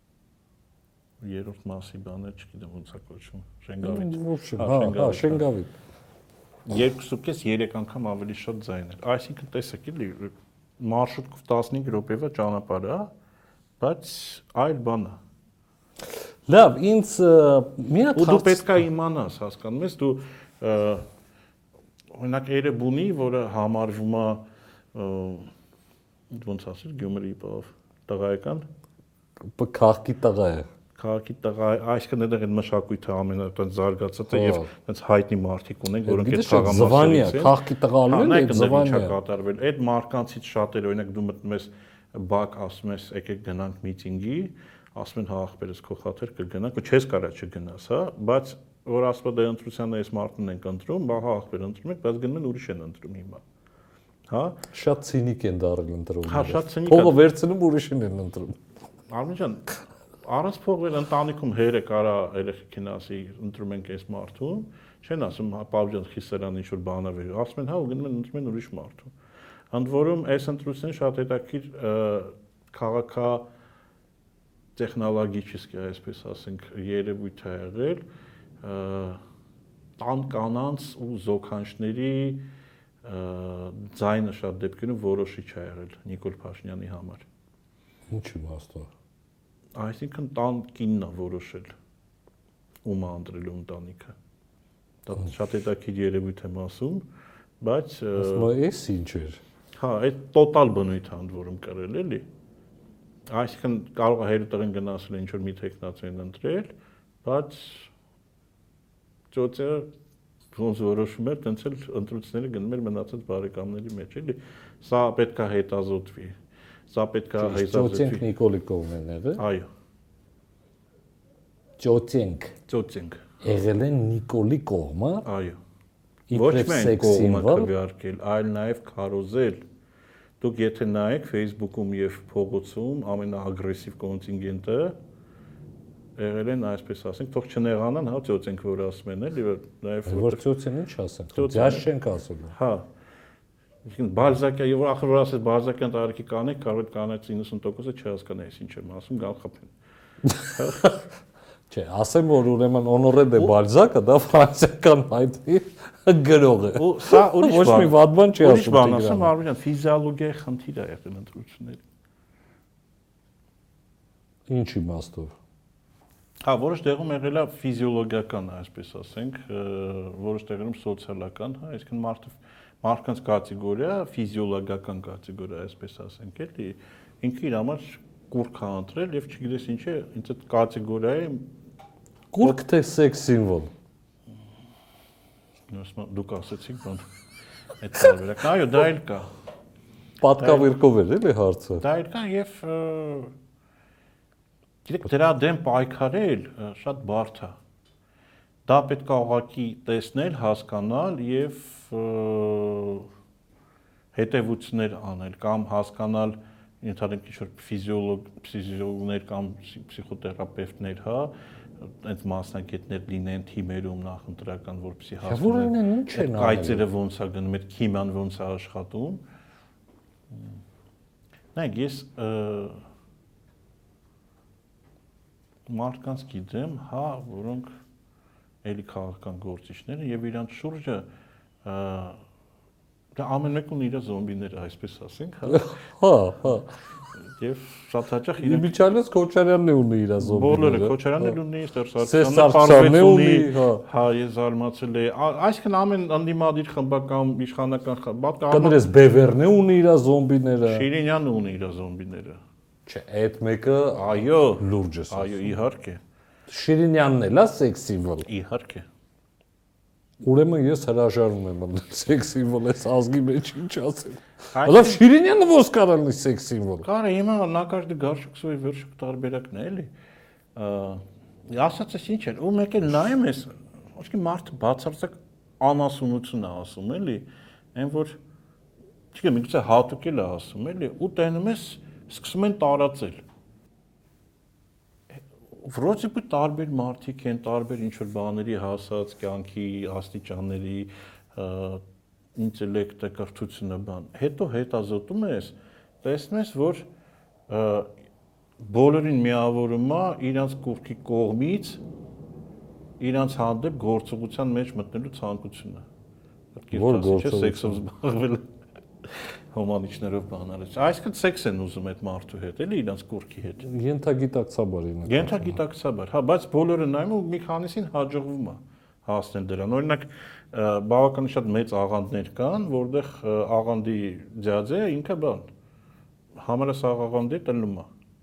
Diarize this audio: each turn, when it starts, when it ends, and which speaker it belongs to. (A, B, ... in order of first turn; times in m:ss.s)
0:01.2-0:05.4 A
0:03.8-0:05.7 B
0:06.6-0:13.1 A
0:13.8-0:15.2 A
0:16.5-0:18.8 B
0:18.1-0:21.0 A
0:22.1-0:25.5 A
0:26.3-0:28.7 A
0:29.4-0:30.7 B
0:31.0-0:37.5 A
0:34.3-0:34.7 B
0:36.0-0:39.1 B
0:38.1-0:53.4 A
0:54.3-0:54.6 A
0:54.7-0:58.6 B
0:56.2-0:57.2 A
0:59.1-1:09.1 A
1:09.7-1:13.4 A
1:14.8-1:18.0 A
1:18.6-1:19.2 A
1:20.0-1:22.4 A
1:23.0-1:27.2 A
1:28.1-1:28.9 B
1:29.8-1:31.7 A
1:32.8-1:34.1 A
1:35.0-1:37.1 A
1:37.6-1:38.5 A
1:38.2-1:39.4 B
1:39.8-1:42.2 A
1:43.3-1:46.7 A
1:47.2-1:47.9 A
1:49.3-1:49.9 A
1:50.5-1:56.4 A
1:56.9-1:58.2 A
1:57.4-1:59.4 B
1:59.4-1:59.7 A
2:01.8-2:02.6 B
2:02.7-2:03.2 A
2:03.4-2:05.2 B
2:05.2-2:05.6 A
2:06.3-2:07.7 B
2:06.3-2:09.6 A
2:10.4-2:14.9 A
2:16.2-2:20.4 A
2:20.1-2:22.5 B
2:21.3-2:21.9 A
2:22.5-2:22.8 A
2:23.8-2:29.7 A
2:30.2-2:31.0 B
2:30.5-2:30.9 A
2:31.7-2:39.3 B
2:36.7-2:41.8 A
2:44.5-2:45.3 B
2:46.4-3:01.5 A
3:02.3-3:03.7 B
3:05.7-3:07.1 A
3:07.8-3:09.3 A
3:10.2-3:11.8 B
3:10.4-3:10.7 A
3:11.8-3:13.3 A
3:14.8-3:17.6 A
3:18.7-3:23.1 A
3:24.1-3:31.3 A
3:31.8-3:39.2 A
3:35.2-3:36.8 B
3:41.5-3:42.8 A
3:45.7-3:47.7 A
3:48.6-3:51.1 A
3:51.6-3:52.2 A
3:53.2-3:55.7 A
3:55.5-3:56.7 B
3:57.4-3:58.7 A
3:58.4-4:01.4 B
4:00.2-4:08.8 A
4:02.0-4:03.8 B
4:08.5-4:10.8 B
4:10.6-4:12.4 A
4:12.8-4:15.5 B
4:13.9-4:16.0 A
4:16.5-4:18.2 B
4:18.2-4:18.9 A
4:20.2-4:26.8 B
4:24.5-4:25.0 A
4:26.8-4:29.9 A
4:30.5-4:38.2 A
4:39.1-4:43.2 A
4:45.6-4:51.8 A
4:52.4-4:56.8 A
4:57.5-4:57.9 A
4:58.6-5:01.8 A
5:03.0-5:05.8 A
5:06.5-5:08.5 A
5:06.7-5:07.8 B
5:09.1-5:13.7 A
5:13.6-5:15.6 B
5:15.1-5:25.4 A
5:26.4-5:27.9 A